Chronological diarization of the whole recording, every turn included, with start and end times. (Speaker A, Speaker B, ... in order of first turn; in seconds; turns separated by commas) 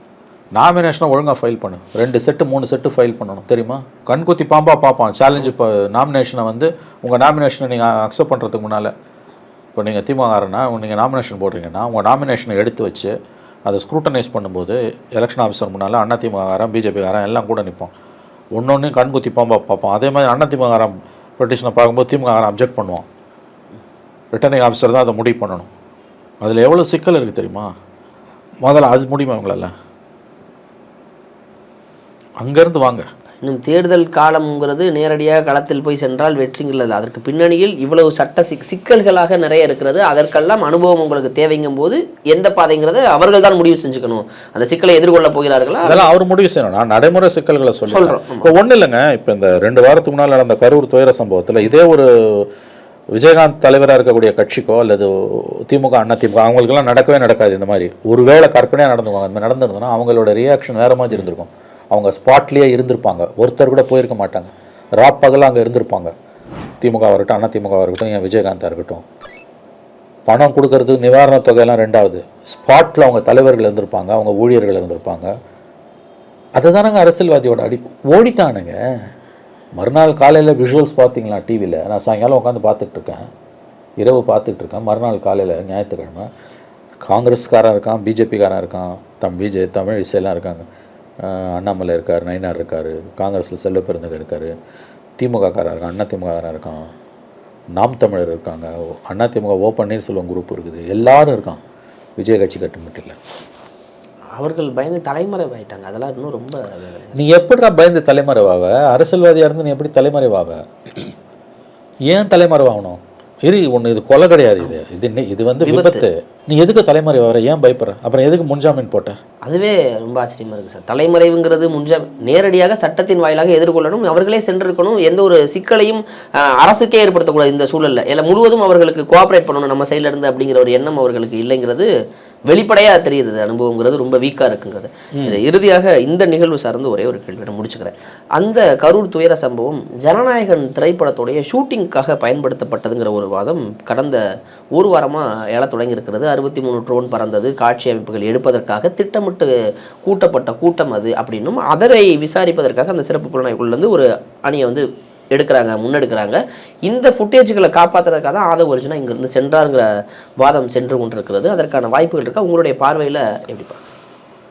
Speaker A: 0.6-8.9, Speaker A: 9.8-13.1, Speaker A: 13.7-17.9, Speaker A: 18.6-23.1, Speaker A: 24.3-25.7, Speaker A: 26.4-27.7, Speaker A: 28.6-29.7, Speaker A: 32.4-33.1, Speaker B: 33.4-46.1, Speaker A: 45.8-52.5, Speaker B: 47.9-48.5, Speaker A: 53.1-66.1, Speaker A: 66.8-69.0, Speaker A: 70.3-75.3, Speaker A: 76.5-78.8, Speaker A: 79.8-83.3, Speaker A: 84.0-86.3, Speaker A: 87.0-90.7, Speaker A: 91.2-94.5, Speaker A: 95.2-96.9, Speaker A: 97.8-101.6, Speaker A: 102.2-103.2, Speaker B: 104.4-107.1, Speaker A: 107.1-111.1, Speaker A: 112.1-119.2, Speaker B: 115.6-116.0, Speaker B: 119.4-131.9, Speaker B: 132.5-144.2, Speaker A: 135.1-135.4, Speaker B: 144.8-149.5, Speaker B: 150.0-159.9, Speaker B: 160.4-163.8